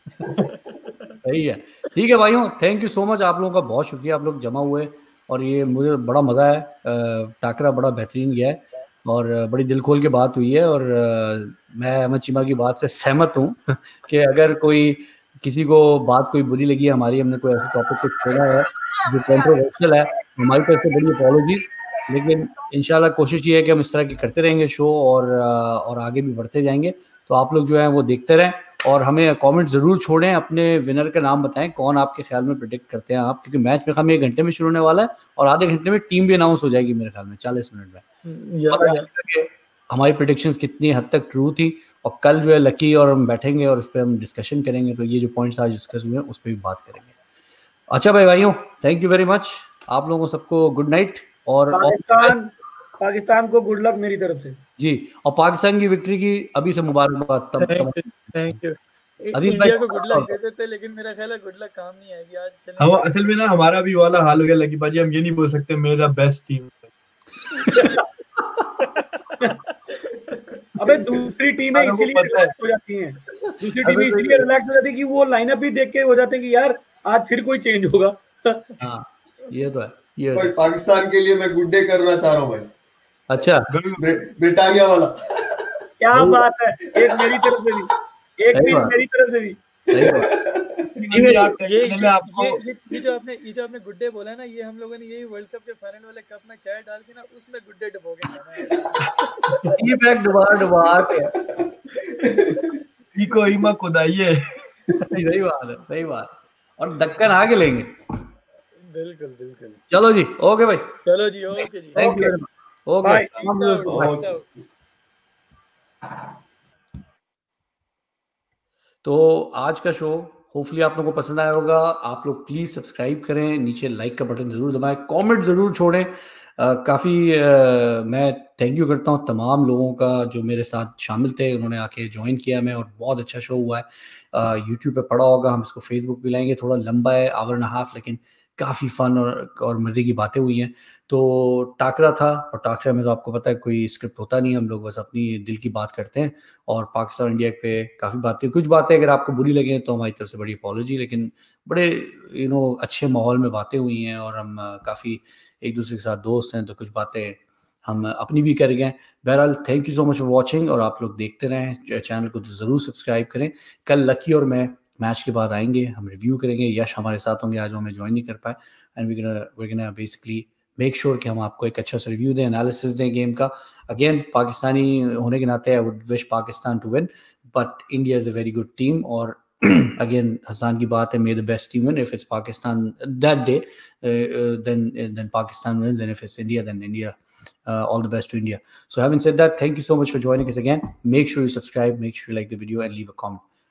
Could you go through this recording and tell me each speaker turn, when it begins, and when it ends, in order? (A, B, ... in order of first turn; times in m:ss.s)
0:00.4-0:01.2 A
0:01.2-0:38.0 B
0:38.2-0:39.1 A
0:38.7-0:47.1 B
0:47.9-0:52.3 B
0:51.7-0:54.6 C
0:54.8-0:58.6 B
0:57.6-1:03.1 A
0:59.3-1:00.3 B
1:02.8-1:06.9 D
1:07.7-1:08.1 C
1:09.0-1:10.3 A
1:10.8-1:18.7 C
1:11.7-1:12.5 D
1:13.5-1:14.4 B
1:18.8-1:20.5 B
1:20.3-1:22.7 E
1:23.3-1:23.7 B
1:23.7-1:24.0 D
1:24.0-1:26.3 E
1:26.0-1:29.6 C
1:26.1-1:26.4 B
1:27.0-1:27.5 E
1:28.5-1:28.9 B
1:29.9-1:31.3 E
1:29.9-1:30.3 B
1:31.0-1:32.6 D
1:31.1-1:31.5 B
1:31.6-1:39.8 A
1:39.8-1:41.3 B
1:40.7-1:42.8 E
1:43.1-1:44.4 D
1:45.0-1:47.9 B
1:48.8-1:49.8 A
1:49.9-1:51.0 B
1:51.0-1:52.0 A
1:52.0-1:54.2 B
1:52.0-1:52.4 C
1:53.0-1:53.3 C
1:53.3-1:54.5 A
1:53.9-1:54.3 E
1:59.0-3:07.1 B
3:07.6-3:13.4 B